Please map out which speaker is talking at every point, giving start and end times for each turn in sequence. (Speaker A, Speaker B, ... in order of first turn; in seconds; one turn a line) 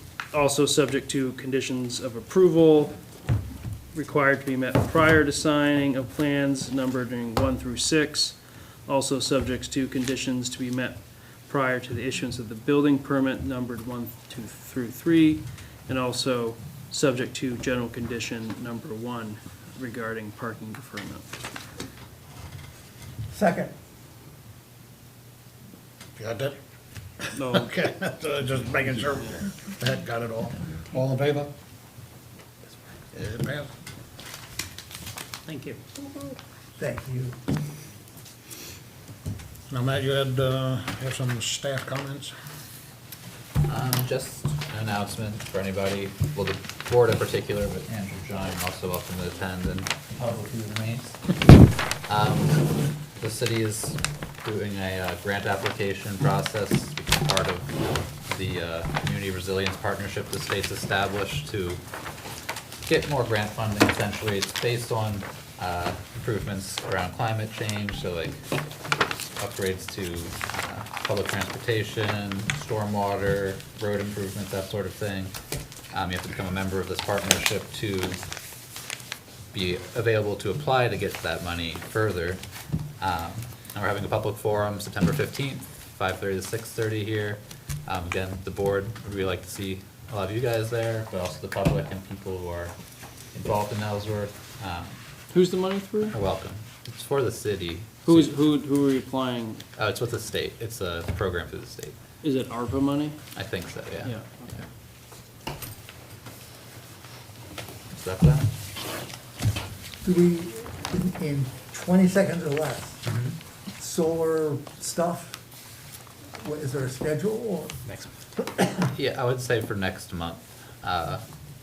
Speaker A: 0.3-3.0
Speaker A: 3.9-21.4
Speaker B: 23.3-23.7
Speaker C: 26.2-26.6
Speaker C: 27.2-31.5
Speaker A: 27.4-27.7
Speaker C: 33.1-33.7
Speaker A: 35.5-35.8
Speaker B: 36.8-37.4
Speaker C: 39.7-42.3
Speaker D: 43.7-51.2
Speaker D: 52.1-52.7
Speaker D: 53.2-57.7
Speaker D: 58.3-61.8
Speaker D: 62.8-68.4
Speaker D: 69.4-75.3
Speaker D: 75.9-78.2
Speaker D: 79.5-82.4
Speaker D: 83.0-92.7
Speaker D: 93.3-95.0
Speaker A: 95.3-96.1
Speaker D: 96.1-98.3
Speaker A: 98.0-99.6
Speaker D: 99.8-102.0
Speaker A: 102.2-103.2
Speaker D: 103.3-104.1
Speaker A: 104.0-104.5
Speaker D: 107.9-108.5
Speaker B: 110.0-113.0
Speaker D: 113.1-113.4
Speaker B: 113.8-115.4
Speaker B: 116.4-117.8
Speaker B: 118.5-118.8
Speaker D: 118.8-121.2